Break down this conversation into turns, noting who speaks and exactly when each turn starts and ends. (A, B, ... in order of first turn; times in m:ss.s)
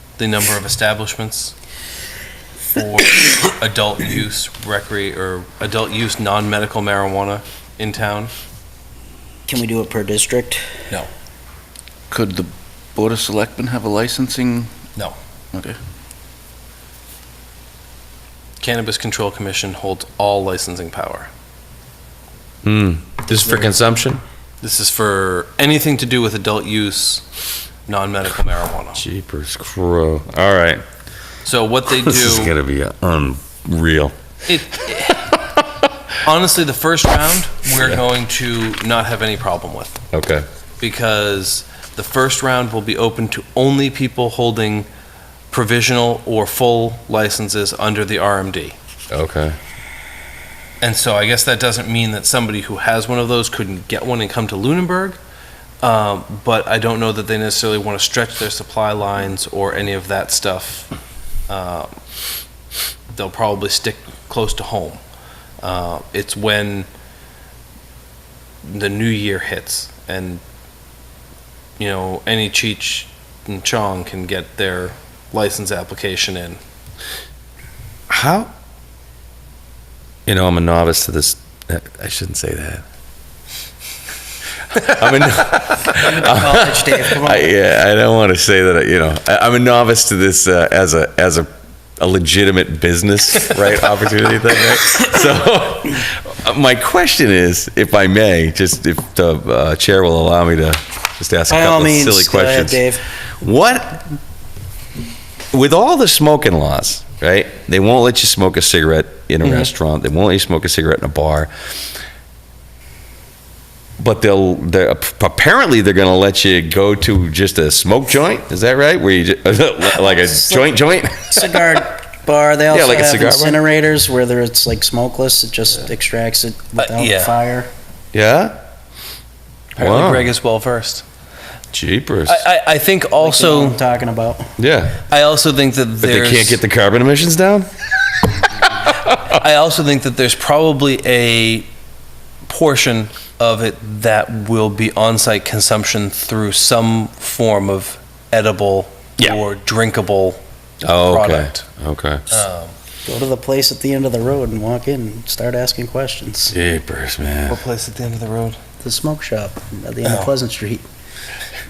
0:00.2-0:01.6 A
0:02.8-0:08.3 A
0:09.5-0:10.6 B
0:12.1-0:14.7 C
0:15.5-0:15.8 C
0:18.6-0:21.3 A
0:22.6-0:24.2 D
0:23.3-0:23.8 A
0:24.6-0:27.2 A
0:27.9-0:29.0 A
0:29.0-0:30.8 D
0:31.4-0:32.5 A
0:32.0-0:34.2 D
0:34.5-0:35.3 A
0:35.1-0:35.6 D
0:36.2-0:40.0 A
0:40.1-0:40.5 D
0:40.8-0:44.9 A
0:45.5-0:48.8 A
0:49.1-0:49.6 D
0:50.8-0:55.2 A
0:55.8-1:00.9 A
1:01.5-1:01.9 A
1:03.1-1:05.0 A
1:05.6-1:06.9 A
1:08.6-1:10.4 A
1:11.8-1:16.6 A
1:18.1-1:18.5 D
1:20.3-1:22.8 D
1:24.7-1:42.9 D
1:25.9-1:27.5 B
1:41.5-1:43.0 B
1:43.4-1:44.0 D
1:45.5-1:51.5 D
1:49.4-1:49.7 A
1:54.0-2:01.6 D
1:59.8-2:07.7 B
2:02.7-2:03.6 D
2:06.8-2:07.3 A
2:08.1-2:08.6 D
2:09.8-2:11.0 A
2:09.8-2:10.3 D
2:11.7-2:12.4 D
2:12.3-2:13.8 A
2:13.2-2:14.5 B
2:14.6-2:15.0 D
2:15.1-2:16.6 A
2:16.0-2:17.7 D
2:19.2-2:21.7 A
2:22.4-2:31.6 A
2:30.8-2:32.3 D
2:32.3-2:32.7 A
2:33.0-2:36.5 B
2:36.5-2:37.6 D
2:37.5-2:38.6 A
2:38.8-2:40.8 B